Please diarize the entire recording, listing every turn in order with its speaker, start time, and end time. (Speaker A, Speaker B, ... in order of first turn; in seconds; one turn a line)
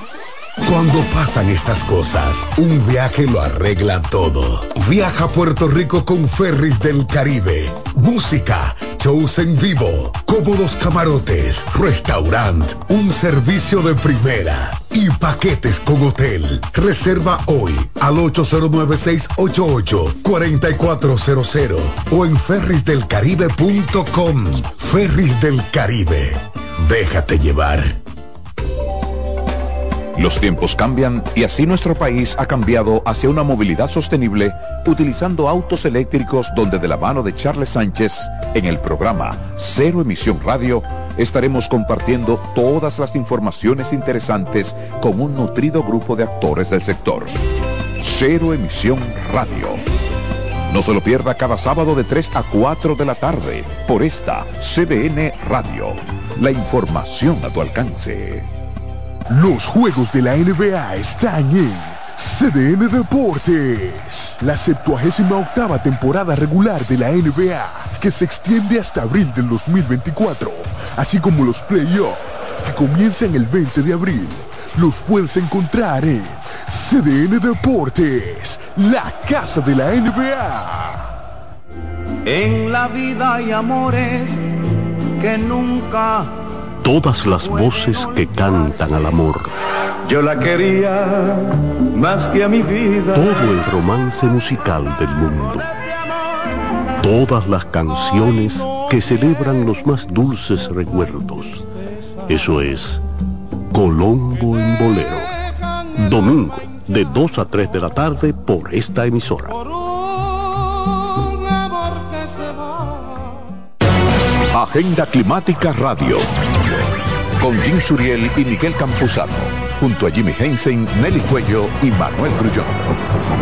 Speaker A: 0.6-27.9
Speaker B: 30.1-47.3
Speaker B: 48.0-49.8
Speaker B: 50.7-58.5
Speaker C: 59.3-81.1
Speaker D: 82.2-84.5
Speaker D: 85.2-86.3
Speaker E: 86.8-89.5
Speaker D: 87.3-89.1
Speaker D: 90.0-93.5
Speaker E: 93.1-95.7
Speaker E: 97.0-101.7
Speaker E: 102.3-103.0
Speaker E: 103.7-105.3
Speaker E: 105.9-109.6
Speaker B: 114.5-116.8
Speaker B: 117.4-123.0